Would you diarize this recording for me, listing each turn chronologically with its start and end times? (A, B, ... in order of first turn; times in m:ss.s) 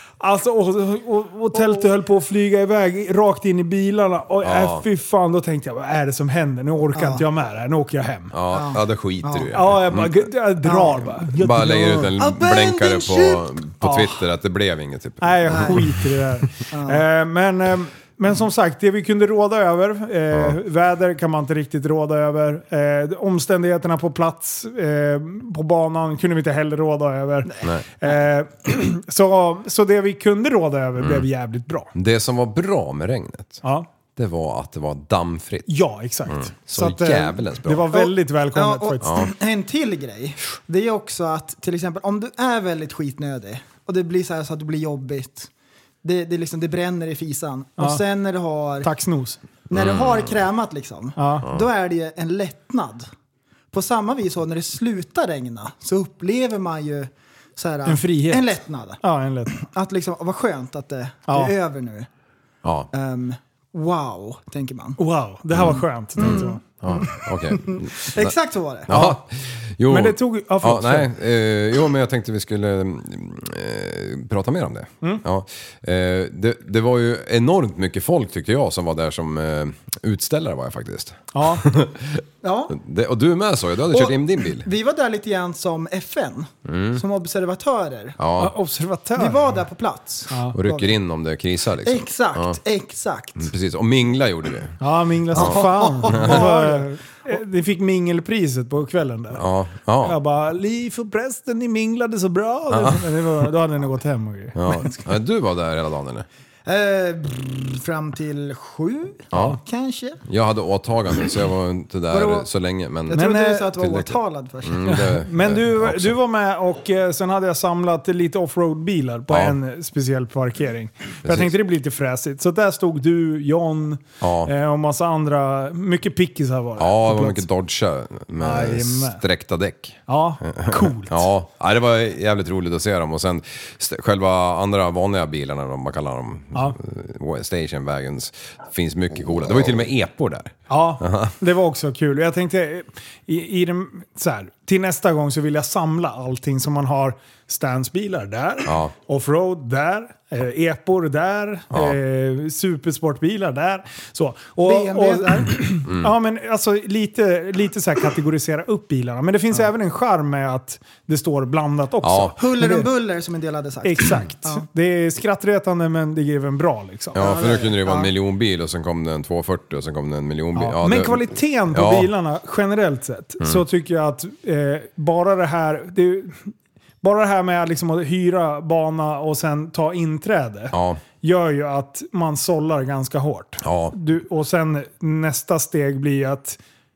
0:00.2-0:08.3 A
0:01.5-0:01.8 B
0:04.4-0:04.8 C
0:07.0-0:07.2 B
0:08.3-0:10.3 C
0:08.5-0:09.6 B
0:09.5-0:12.1 A
0:10.6-0:11.1 B
0:11.2-0:16.0 C
0:12.2-0:13.5 B
0:13.8-0:14.2 A
0:15.2-0:31.9 A
0:15.5-0:15.8 B
0:16.7-0:17.0 B
0:31.0-0:31.3 C
0:31.9-0:33.6 C
0:34.2-0:35.7 C
0:35.7-0:39.2 A
0:36.3-0:37.9 C
0:37.9-0:45.5 B
0:39.0-0:39.3 C
0:46.0-0:48.9 B
0:48.8-0:49.4 A
0:49.7-0:53.1 B
0:49.7-0:50.4 C
0:51.2-0:51.5 A
0:53.7-0:59.0 B
0:57.9-0:59.6 A
0:59.5-1:02.1 B
1:01.3-1:01.5 A
1:02.6-1:02.9 C
1:02.9-1:05.0 B
1:05.0-1:06.6 A
1:05.6-1:08.3 C
1:06.2-1:08.9 B
1:08.9-1:24.7 C
1:08.9-1:09.2 A
1:09.9-1:11.1 A
1:21.3-1:21.7 A
1:22.4-1:22.8 B
1:23.9-1:28.2 B
1:26.7-1:27.0 C
1:28.2-1:28.5 C
1:28.4-1:29.5 A
1:29.2-1:30.9 B
1:30.3-1:30.6 A
1:30.5-1:32.6 C
1:31.8-1:33.5 B
1:33.4-1:34.8 C
1:34.8-1:39.4 A
1:35.3-1:36.4 C
1:35.3-1:36.8 B
1:39.3-1:40.2 C
1:40.0-1:45.1 A
1:42.7-1:43.1 C
1:44.6-1:46.3 C
1:46.7-1:50.2 B
1:49.3-1:49.6 C
1:50.2-1:53.2 C
1:52.1-1:52.5 B
1:53.1-1:55.0 B
1:53.1-1:53.8 A
1:53.8-1:56.2 C
1:54.9-2:07.4 A
1:59.3-1:59.6 C
2:01.2-2:01.5 C
2:04.2-2:04.5 C
2:06.8-2:21.3 C
2:08.4-2:09.2 A
2:10.1-2:11.3 A
2:20.7-2:42.9 A
2:28.7-2:28.9 C
2:31.7-2:32.0 C
2:34.6-2:35.6 B
2:35.9-2:36.1 C
2:42.0-2:42.3 C
2:42.4-2:44.6 B
2:43.8-2:47.2 A
2:47.2-2:48.1 B
2:47.2-2:52.1 C
2:50.6-2:56.5 A
2:57.0-3:06.6 A
3:00.7-3:01.0 C
3:03.6-3:04.0 C